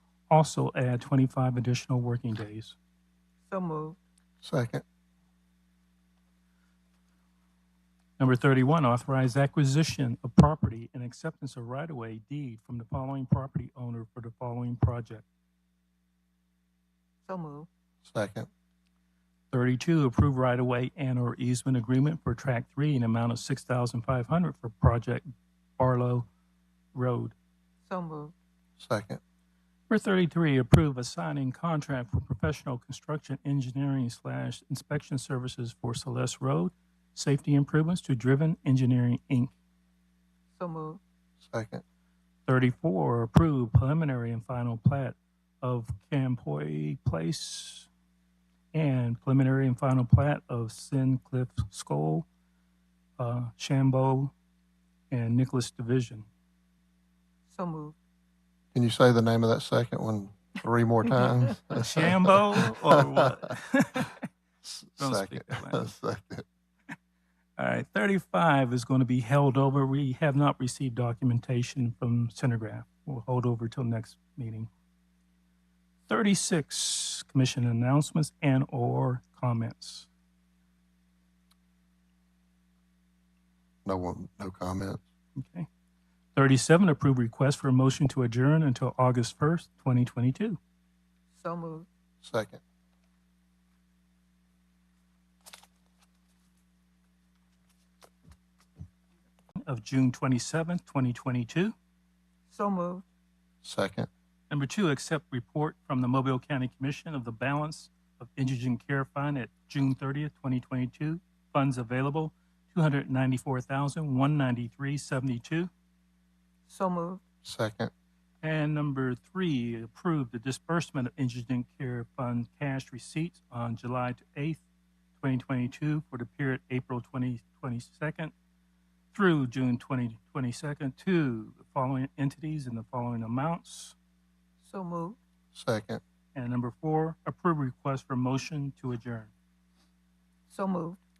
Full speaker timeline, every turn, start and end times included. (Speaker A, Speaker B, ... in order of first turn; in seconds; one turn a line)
Speaker A: 0.3-2.8
Speaker B: 3.5-4.0
Speaker C: 4.4-4.8
Speaker A: 8.2-15.2
Speaker B: 17.3-17.7
Speaker C: 18.0-18.5
Speaker A: 19.5-26.3
Speaker A: 26.9-27.3
Speaker B: 27.9-28.3
Speaker C: 28.8-29.2
Speaker A: 29.9-39.5
Speaker B: 40.6-41.0
Speaker C: 41.4-41.8
Speaker A: 42.5-47.9
Speaker A: 48.7-52.2
Speaker A: 53.2-54.3
Speaker A: 55.1-56.3
Speaker B: 57.5-58.0
Speaker C: 58.7-63.2
Speaker A: 61.7-64.3
Speaker A: 64.8-65.9
Speaker C: 65.0-66.5
Speaker A: 67.6-74.7
Speaker A: 76.1-80.1
Speaker C: 83.8-85.0
Speaker A: 85.3-85.7
Speaker A: 86.3-90.6
Speaker B: 91.3-91.9
Speaker C: 92.2-92.6
Speaker A: 99.6-101.7
Speaker B: 102.5-103.0
Speaker C: 103.6-104.1
Speaker A: 104.5-115.7
Speaker B: 116.7-117.2
Speaker C: 117.4-117.9
Speaker A: 118.4-124.6
Speaker A: 125.2-128.3
Speaker A: 129.1-133.9
Speaker B: 134.6-135.2
Speaker C: 135.5-136.0
Speaker A: 136.3-139.3
Speaker B: 140.5-141.0